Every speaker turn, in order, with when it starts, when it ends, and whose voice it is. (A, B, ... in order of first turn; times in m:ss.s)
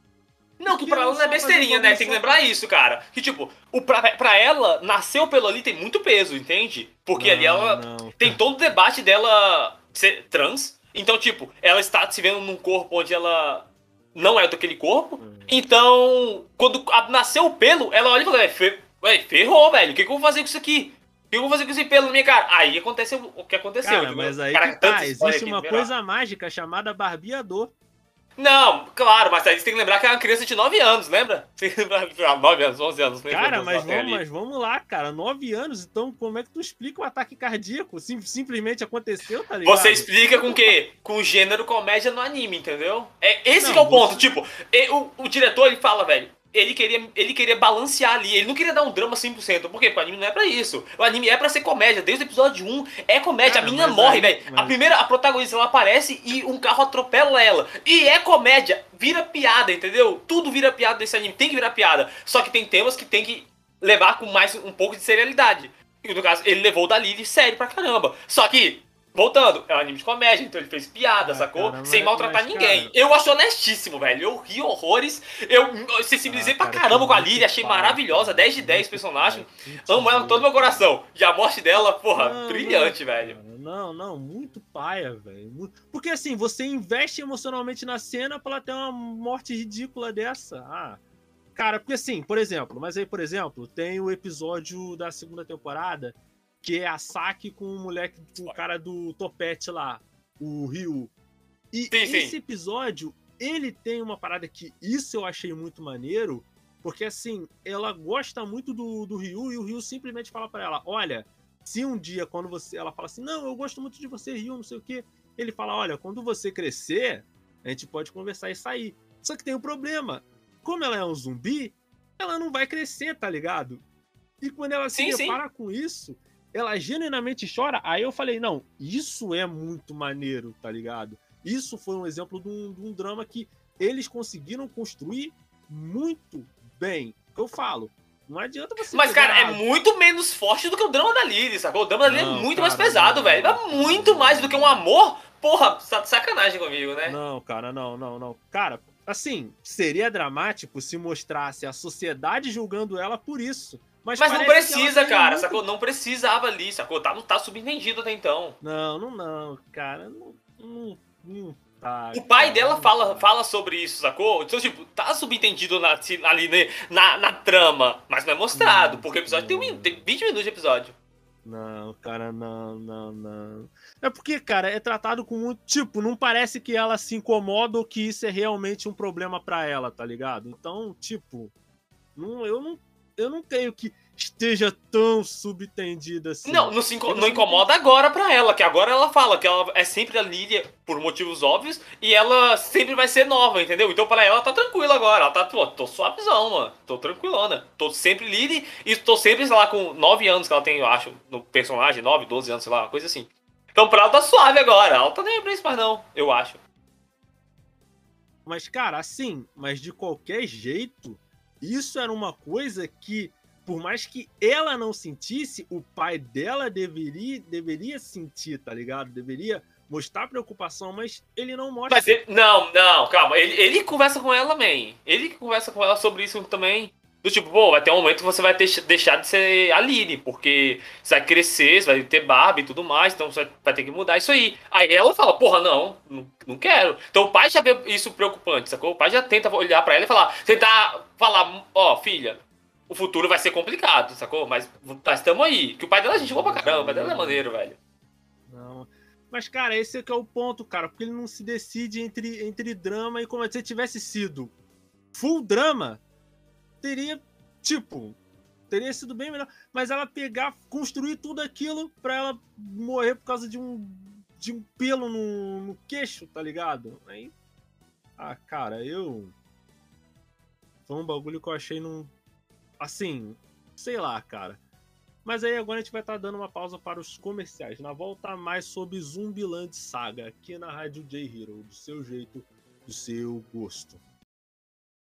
0:00.6-0:25.9 A
0:00.7-0:02.4 B
0:07.2-0:08.4 B
0:15.2-0:15.6 B
0:23.8-0:27.7 B
0:28.4-0:34.2 A
0:33.3-0:40.8 B
0:39.6-1:23.4 A
0:43.6-0:44.3 B
0:53.4-0:54.8 B
1:11.2-1:12.9 B
1:16.3-1:20.9 B
1:22.1-1:31.0 B
1:31.6-1:41.1 B
1:41.7-2:03.8 B
1:41.9-1:42.4 A
2:04.4-2:19.6 B
2:04.9-2:05.4 A
2:18.9-2:27.2 A
2:22.0-2:24.8 B
2:27.0-2:35.6 B
2:34.2-2:38.6 A
2:38.6-2:43.3 B
2:42.1-2:51.0 A
2:48.5-2:50.1 B
2:51.4-3:01.5 B
3:02.2-3:07.7 B
3:06.4-3:26.6 A
3:28.4-3:42.2 B
3:41.9-4:07.8 A
4:06.1-4:07.5 B
4:08.5-4:14.5 B
4:15.1-4:16.0 B
4:16.8-4:18.2 B
4:18.7-4:27.3 B
4:28.2-4:29.3 B
4:30.9-4:32.1 B
4:32.8-4:34.6 B
4:35.2-4:44.0 B